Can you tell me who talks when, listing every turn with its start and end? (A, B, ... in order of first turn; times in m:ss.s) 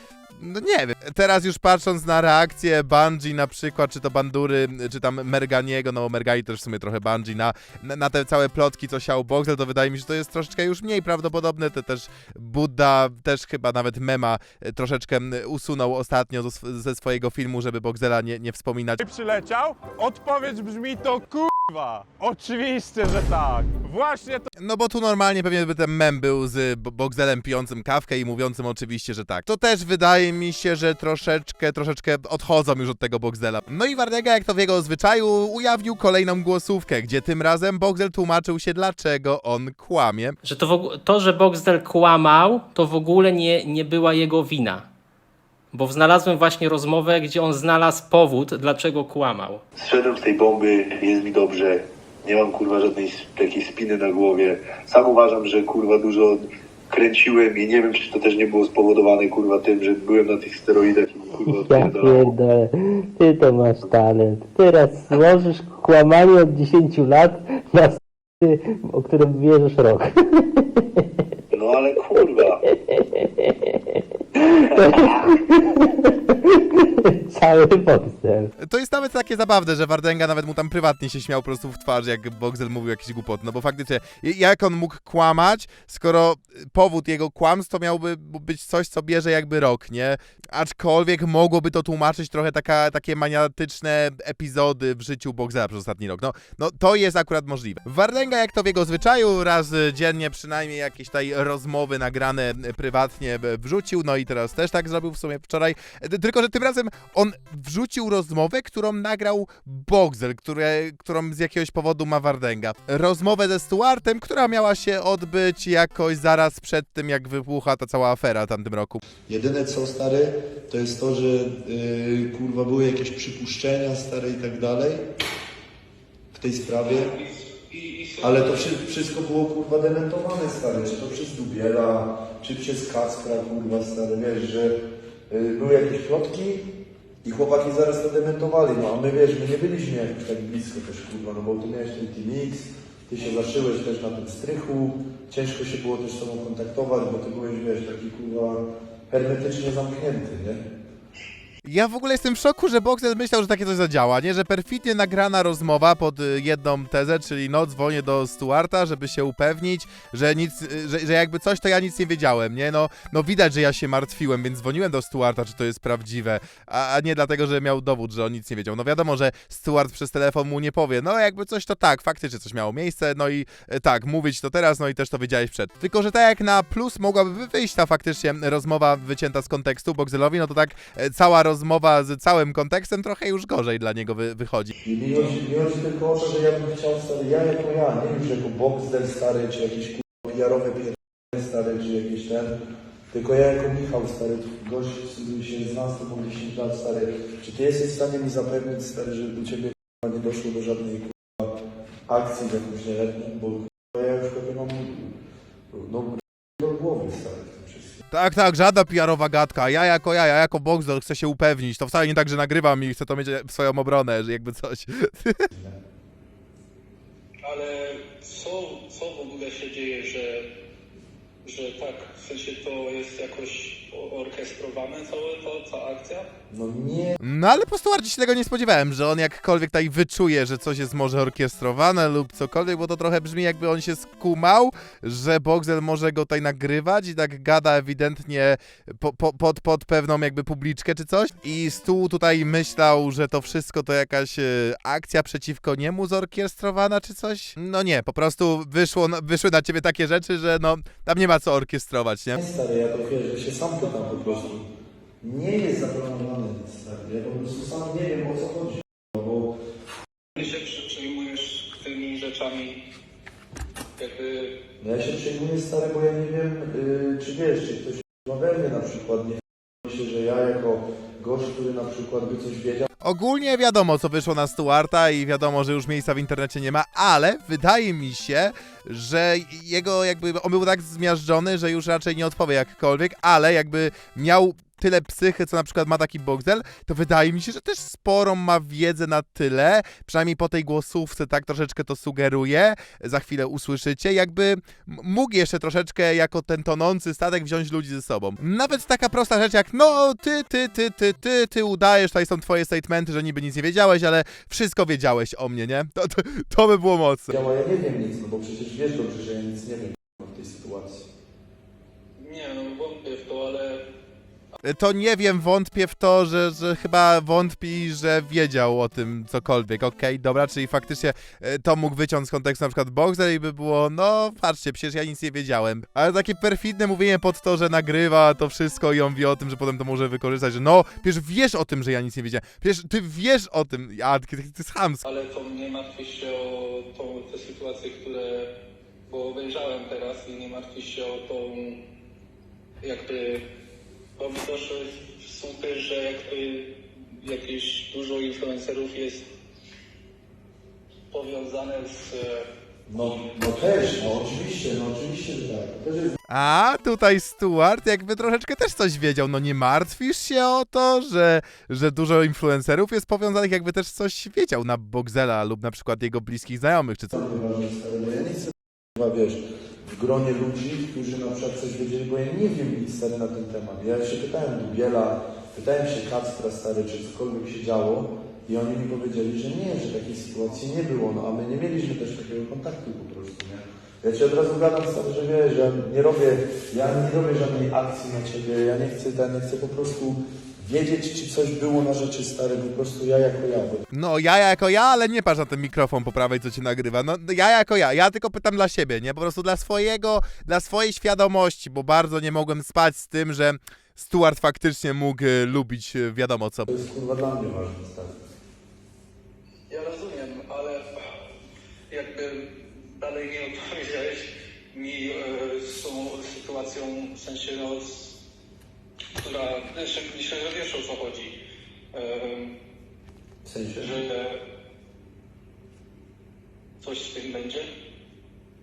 0:00.4-0:19.0 A
0:19.0-0:24.5 B
0:24.6-0:40.4 A
0:40.4-0:44.9 C
0:45.7-0:49.6 C
0:49.8-1:02.3 D
1:01.4-1:11.0 E
1:11.5-1:12.6 D
1:12.6-1:18.5 E
1:14.8-1:15.2 D
1:18.6-1:59.0 A
1:59.3-2:05.0 F
2:06.3-2:07.1 F
2:06.8-2:08.8 G
2:08.2-2:14.7 F
2:15.3-2:16.7 F
2:17.2-2:30.6 F
2:23.2-2:23.6 G
2:31.6-3:04.7 A
3:04.8-3:12.5 F
3:13.1-3:21.5 F
3:22.1-3:25.1 F
3:25.7-3:28.0 F
3:28.1-3:35.5 A
3:37.4-3:40.5 G
3:41.4-3:46.3 G
3:46.5-3:47.2 F
3:47.2-4:12.4 A
4:12.3-4:14.6 F
4:13.8-4:14.5 G
4:15.2-4:19.5 F
4:20.3-4:22.8 G
4:24.0-4:24.5 G
4:24.8-4:32.9 F
4:33.0-5:07.3 A
5:07.3-5:11.0 F
5:12.2-5:13.8 G
5:14.6-5:35.0 A
5:35.0-5:38.5 G
5:39.1-5:41.8 G
5:42.8-5:43.4 G
5:44.2-5:49.3 G
5:51.1-5:52.4 G
5:52.9-5:56.2 F
5:56.3-6:07.2 A
6:07.1-6:33.8 F
6:33.9-6:46.7 A
6:46.7-6:48.2 F
6:49.7-6:51.0 G
6:51.9-6:58.2 G
6:59.2-7:01.4 G
7:01.9-7:02.6 G
7:03.4-7:04.0 F
7:03.8-7:04.4 G
7:06.8-7:07.7 G